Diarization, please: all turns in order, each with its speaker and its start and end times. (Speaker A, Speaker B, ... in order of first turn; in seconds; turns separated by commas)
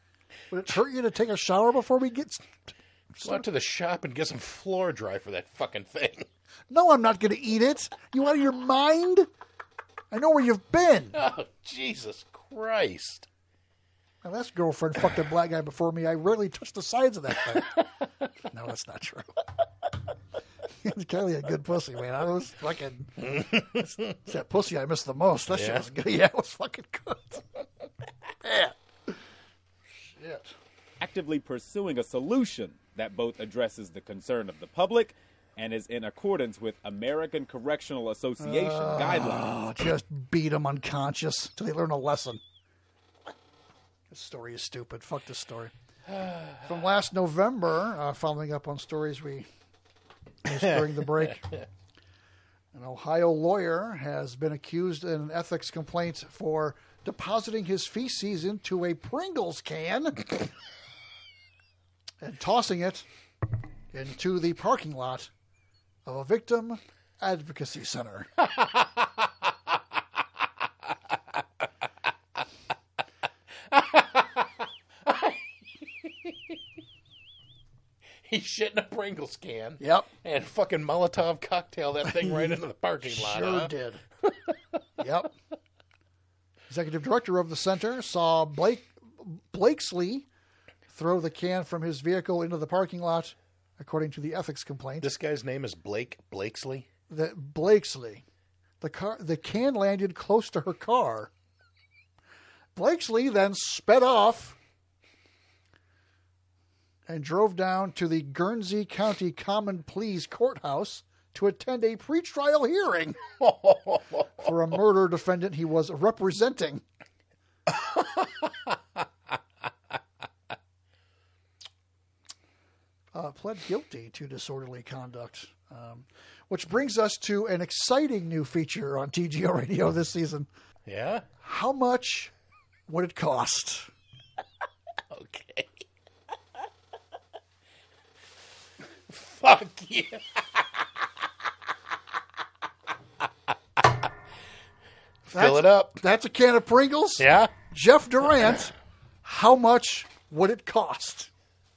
Speaker A: 0.5-3.4, Speaker B: 3.2-6.3, Speaker A: 6.7-9.3, Speaker A: 10.1-11.2, Speaker B: 11.1-13.2, Speaker A: 14.2-17.8, Speaker A: 18.5-19.4, Speaker A: 20.8-27.4, Speaker B: 23.2-24.1, Speaker B: 25.5-25.9, Speaker A: 28.4-29.2, Speaker A: 29.9-30.5, Speaker C: 31.0-39.5, Speaker A: 38.4-42.4, Speaker A: 44.1-45.7, Speaker B: 46.2-46.6, Speaker A: 46.6-49.5, Speaker A: 50.4-51.5, Speaker A: 52.7-60.2, Speaker A: 62.2-63.1, Speaker A: 63.9-65.3, Speaker A: 66.0-68.3, Speaker B: 73.7-74.4, Speaker B: 75.0-75.4, Speaker B: 76.0-76.3, Speaker B: 78.2-83.7, Speaker A: 79.8-80.1, Speaker A: 82.2-84.0, Speaker A: 85.0-85.3, Speaker A: 86.7-90.3, Speaker A: 90.9-95.1, Speaker B: 95.0-96.9, Speaker A: 97.1-98.2, Speaker A: 98.8-101.3, Speaker A: 102.7-104.6, Speaker A: 107.1-113.2, Speaker B: 113.4-114.4, Speaker A: 114.4-116.8, Speaker B: 117.7-118.7, Speaker A: 123.1-130.5, Speaker B: 130.9-131.2, Speaker A: 131.4-132.3, Speaker A: 132.9-133.9, Speaker B: 135.1-135.8, Speaker B: 139.1-140.6, Speaker B: 145.3-146.0, Speaker A: 145.3-148.7, Speaker B: 147.2-147.6, Speaker A: 149.2-151.3